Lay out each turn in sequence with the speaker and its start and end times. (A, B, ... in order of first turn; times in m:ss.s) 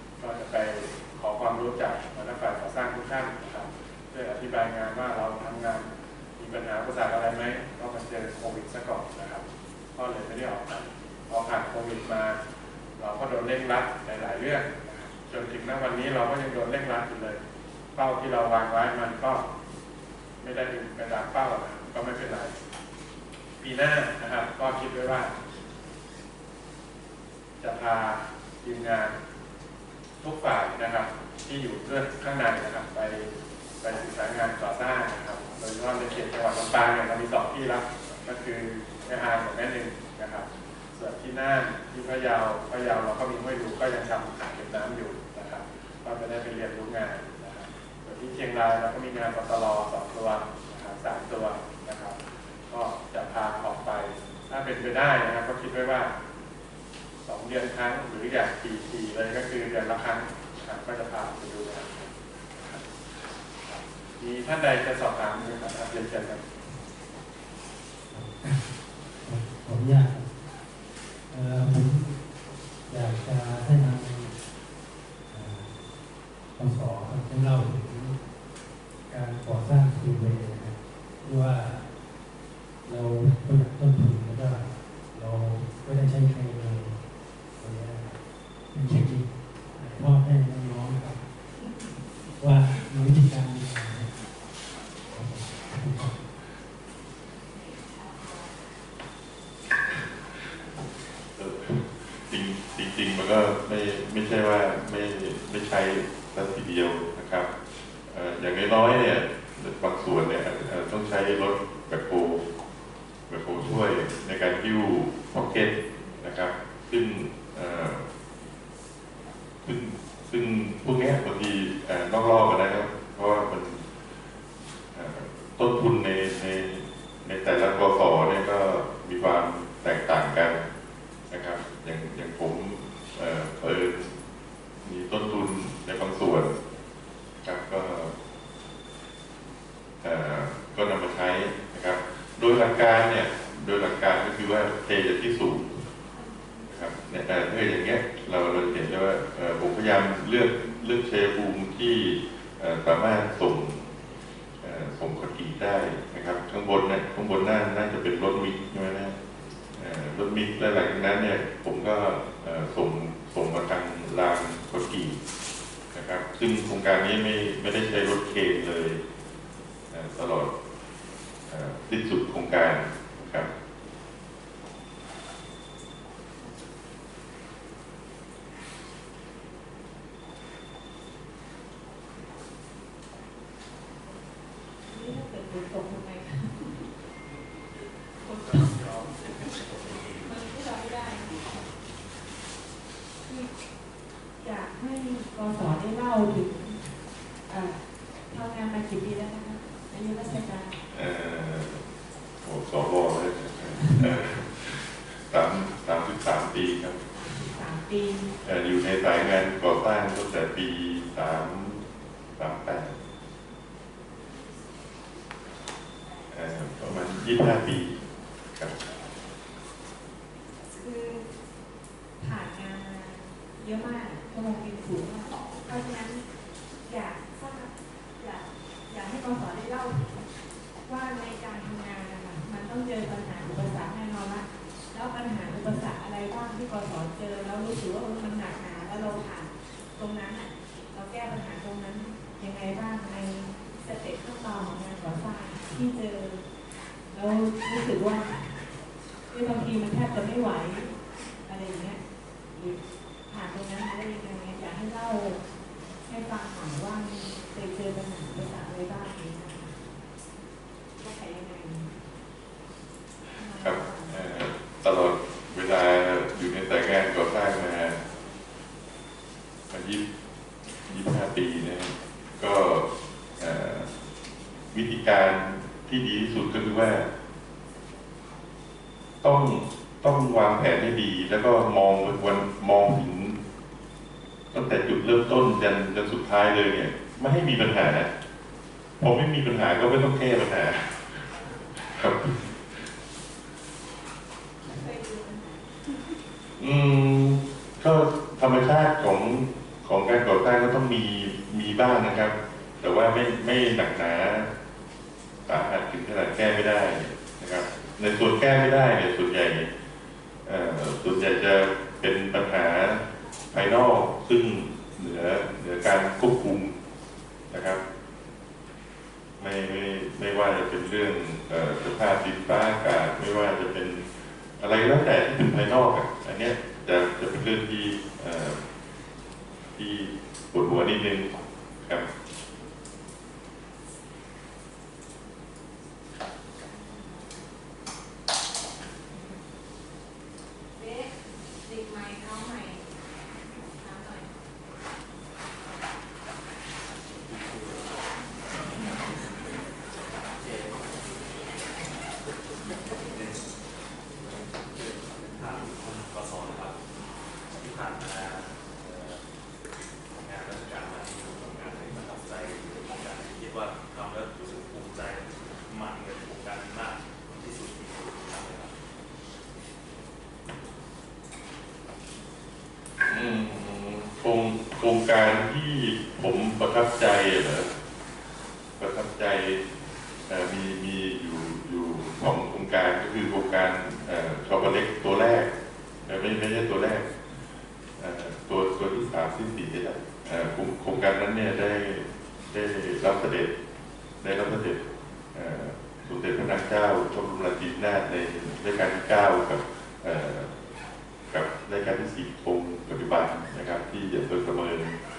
0:00.2-0:09.4 A
0:09.9-0:12.4 A
0:13.0-0:17.4 A
0:17.9-0:19.4 A
0:20.4-0:22.5 A
0:23.6-0:25.3 A
0:27.6-0:29.2 A
0:30.2-0:56.1 A
0:57.2-1:02.9 A
1:03.6-1:06.4 A
1:08.1-1:08.6 B
1:09.2-1:10.3 B
1:11.3-1:12.3 B
1:12.8-1:14.4 B
1:15.3-1:15.7 B
1:16.6-1:18.2 B
1:19.1-1:21.9 B
1:22.8-1:27.0 B
1:27.6-1:28.2 B
1:28.7-1:31.2 B
1:32.4-1:34.2 B
1:35.1-1:36.2 B
1:37.5-1:38.5 C
1:39.9-1:40.7 D
1:41.3-1:47.5 D
1:48.1-1:52.4 D
1:53.3-1:58.0 D
1:59.6-2:03.8 D
2:04.9-2:10.6 D
2:11.3-2:14.1 D
2:14.8-2:16.6 D
2:17.4-2:18.1 D
2:20.0-2:25.8 D
2:26.7-2:33.9 D
2:34.6-2:39.2 D
2:39.7-2:45.2 D
2:45.9-2:49.0 D
2:49.9-2:50.5 D
2:51.5-2:53.5 D
3:04.8-3:06.9 C
3:07.8-3:09.5 C
3:08.2-3:10.4 E
3:10.2-3:11.6 C
3:13.2-3:13.5 C
3:14.4-3:16.9 C
3:17.5-3:20.8 C
3:20.9-3:21.8 D
3:22.4-3:27.0 D
3:23.8-3:24.1 C
3:27.1-3:28.3 C
3:28.4-3:31.8 D
3:32.4-3:33.0 D
3:36.3-3:38.0 D
3:40.8-3:41.3 C
3:42.2-3:46.2 C
3:46.8-3:50.2 C
3:50.8-4:06.4 C
4:07.1-4:08.6 C
4:09.3-4:10.9 C
4:11.4-4:12.0 C
4:12.5-4:15.4 C
4:16.1-4:19.8 C
4:21.0-4:22.0 C
4:23.3-4:24.2 C
4:23.6-4:28.0 D
4:29.7-4:30.0 D
4:30.9-4:32.8 D
4:33.4-4:33.9 D
4:34.7-4:37.1 D
4:39.2-4:43.4 D
4:44.5-4:48.1 D
4:49.0-4:52.9 D
4:54.6-4:56.2 C
4:56.6-5:04.5 D
5:05.4-5:09.7 D
5:10.4-5:16.8 D
5:17.5-5:17.8 D
5:19.4-5:28.6 D
5:29.8-5:32.1 D
5:36.6-5:37.4 C
5:39.1-5:39.4 C
5:40.8-5:42.8 C
5:43.5-5:44.4 C
5:47.0-5:49.3 E
5:50.3-5:51.9 E
5:53.0-5:53.5 E
5:54.2-5:56.8 E
5:57.6-5:59.2 E
6:00.2-6:08.8 E
6:13.0-6:17.7 D
6:18.8-6:19.6 D
6:20.3-6:25.5 D
6:26.0-6:27.1 D
6:28.0-6:33.5 D
6:34.2-6:40.5 D
6:41.3-6:45.0 D